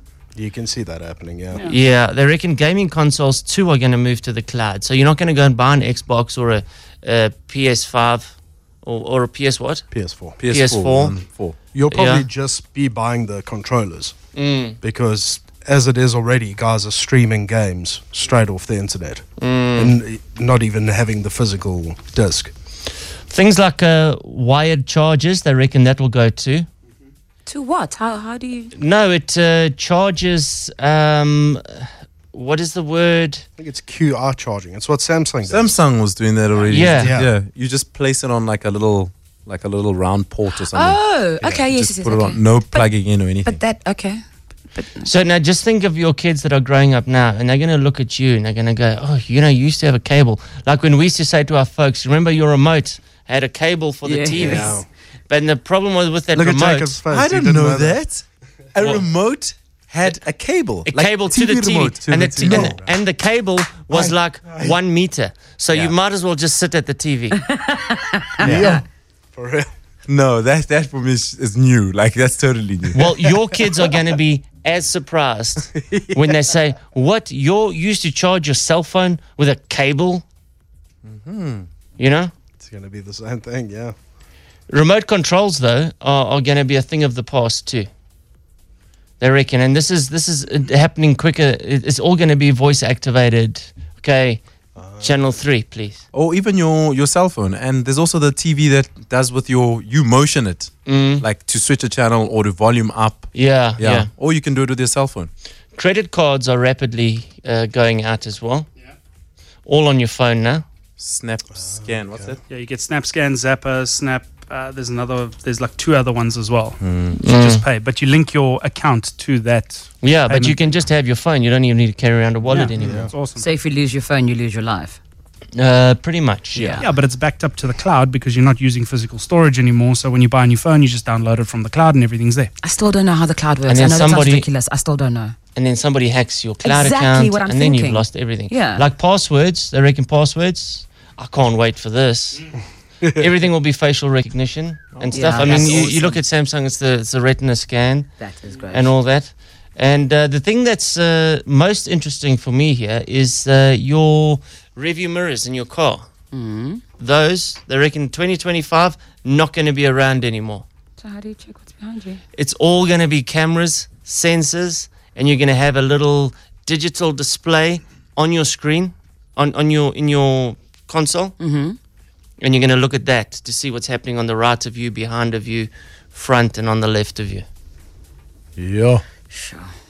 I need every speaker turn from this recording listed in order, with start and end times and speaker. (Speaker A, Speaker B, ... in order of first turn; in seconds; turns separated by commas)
Speaker A: 0.3-1.7, Speaker B: 1.6-9.8, Speaker A: 9.9-10.4, Speaker C: 10.4-11.6, Speaker B: 10.5-11.2, Speaker A: 11.7-14.2, Speaker B: 11.9-12.3, Speaker B: 14.3-14.8, Speaker A: 14.8-19.2, Speaker B: 19.4-20.0, Speaker A: 19.8-22.5, Speaker B: 23.3-26.7, Speaker D: 27.5-28.7, Speaker B: 28.8-33.4, Speaker A: 33.6-35.7, Speaker C: 35.5-43.6, Speaker B: 36.7-37.1, Speaker A: 37.0-37.3, Speaker D: 40.5-45.1, Speaker B: 45.1-57.0, Speaker D: 54.0-54.8, Speaker A: 54.4-54.9, Speaker A: 56.3-58.0, Speaker C: 57.1-58.2, Speaker C: 58.7-62.8, Speaker B: 60.9-67.5, Speaker A: 62.4-62.9, Speaker D: 67.7-68.8, Speaker C: 68.4-68.8, Speaker A: 68.4-68.8, Speaker A: 69.3-69.7, Speaker C: 70.1-73.1, Speaker B: 72.9-80.2, Speaker C: 81.0-81.7, Speaker B: 82.0-82.3, Speaker A: 82.6-84.0, Speaker B: 84.7-87.9, Speaker B: 89.2-94.4, Speaker A: 94.8-95.2, Speaker B: 95.0-96.0, Speaker C: 96.1-105.3, Speaker B: 100.9-101.2, Speaker B: 103.3-104.1, Speaker B: 105.8-108.7, Speaker B: 109.7-110.6, Speaker C: 111.0-112.4, Speaker A: 111.5-112.4, Speaker E: 112.5-120.7, Speaker C: 116.8-117.2, Speaker B: 117.2-117.6, Speaker B: 120.0-123.1, Speaker E: 122.5-123.5, Speaker A: 122.8-123.1, Speaker D: 123.4-125.0, Speaker B: 125.6-126.8, Speaker D: 126.5-126.9, Speaker E: 126.8-132.5, Speaker D: 132.6-135.3, Speaker B: 133.7-134.5, Speaker B: 135.6-142.5, Speaker D: 136.6-138.8, Speaker B: 143.2-148.2, Speaker C: 144.9-146.2, Speaker D: 145.1-145.9, Speaker D: 148.2-148.9, Speaker B: 148.7-156.1, Speaker D: 156.3-156.8, Speaker B: 157.0-160.6, Speaker D: 161.0-162.2, Speaker B: 162.4-171.3, Speaker D: 171.4-171.8, Speaker B: 172.4-177.4, Speaker C: 178.6-179.0, Speaker D: 179.3-179.7